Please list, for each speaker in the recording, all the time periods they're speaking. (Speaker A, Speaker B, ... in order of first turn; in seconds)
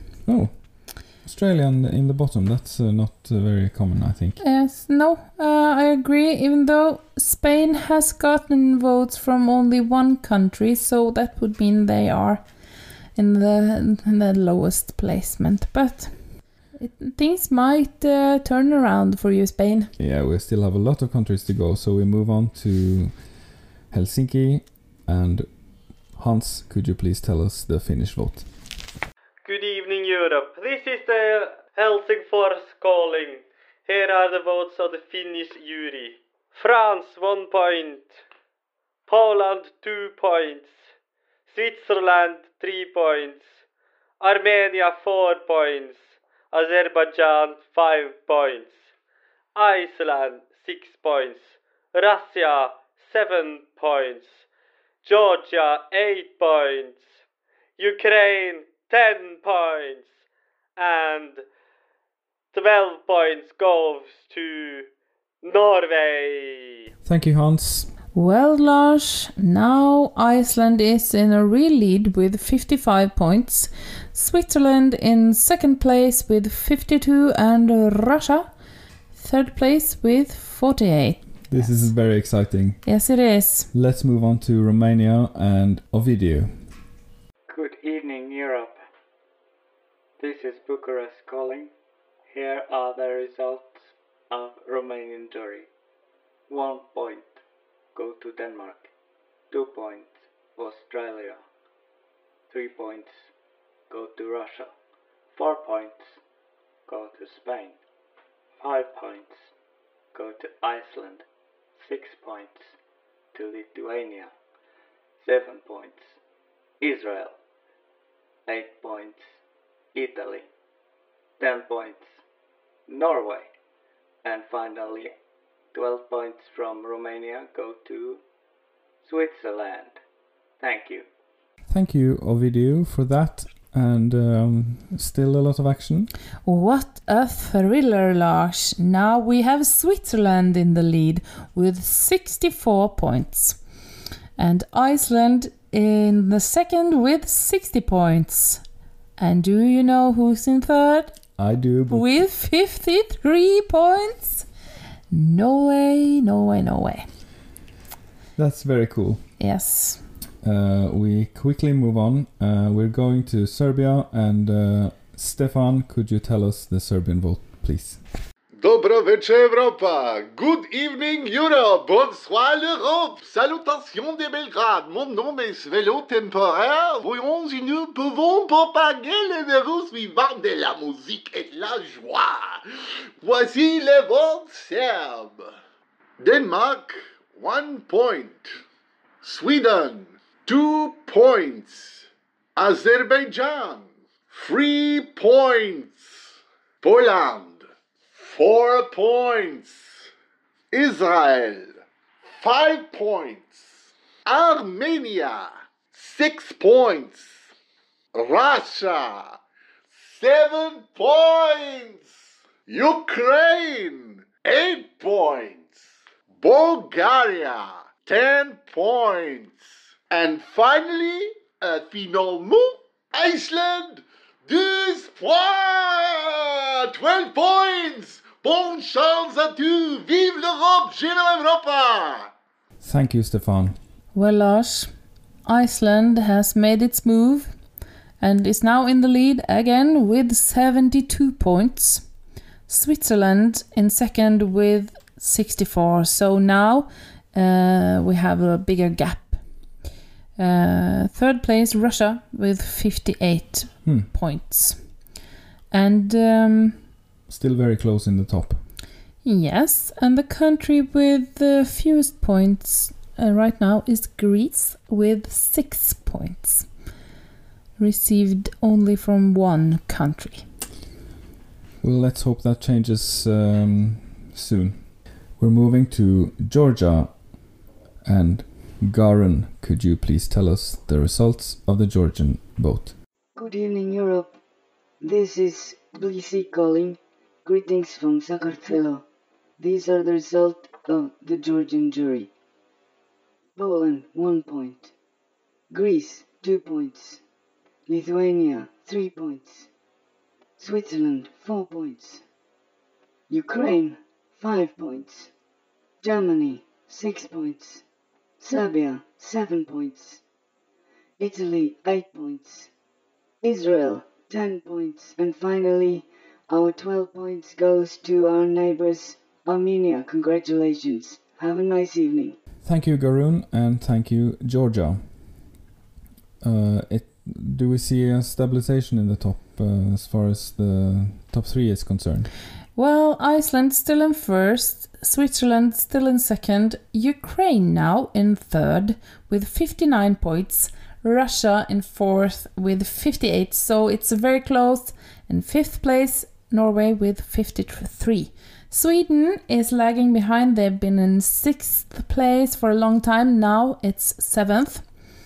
Speaker A: 0.2-4.4, 20.0-28.5, 67.0-67.9, 81.5-82.8, 83.7-86.7, 131.7-136.1, 151.4-152.1, 158.4-159.3, 160.4-168.0, 232.8-233.8, 257.3-258.6, 271.8-277.5, 278.0-282.9, 322.6-325.1, 326.4-332.3
Speaker B: 4.4-12.5, 13.2-19.9, 68.1-78.5, 79.1-81.9, 82.8-83.7, 136.4-143.6, 144.4-148.6, 149.2-151.2, 151.9-154.5, 155.1-157.1, 159.4-160.0, 234.1-234.9, 235.4-237.5, 238.2-242.1, 242.7-249.4, 250.4-254.8, 255.7-256.8, 259.2-266.7, 267.8-270.5, 332.8-354.9
Speaker C: 29.4-38.1, 39.1-40.7, 41.5-43.5, 44.2-48.8, 49.5-54.4, 55.0-57.0, 57.8-60.1, 60.8-61.4, 62.5-64.9, 65.4-66.8
Speaker D: 87.5-88.8, 90.2-91.7, 92.3-95.7, 96.5-97.4, 98.0-98.9, 99.5-101.4, 102.5-103.3, 103.9-104.7, 105.3-106.2, 106.9-107.8, 108.6-109.5, 110.1-111.3, 111.8-112.7, 113.3-114.3, 115.2-116.2, 116.8-117.4, 118.5-119.2, 120.0-120.5, 121.4-122.1, 122.9-123.5, 124.2-125.2, 125.7-128.2, 129.0-130.0, 130.6-131.1
Speaker E: 168.6-185.5, 186.2-188.6, 189.2-197.7, 198.2-200.1, 200.7-201.8, 202.4-207.5, 208.2-209.4, 209.9-232.3
Speaker F: 283.4-284.3, 285.0-289.0, 289.6-292.3, 293.6-294.9, 295.7-297.2, 297.9-299.7, 300.6-302.2, 303.3-305.3, 306.0-307.8, 308.4-310.2, 311.2-312.7, 313.4-322.4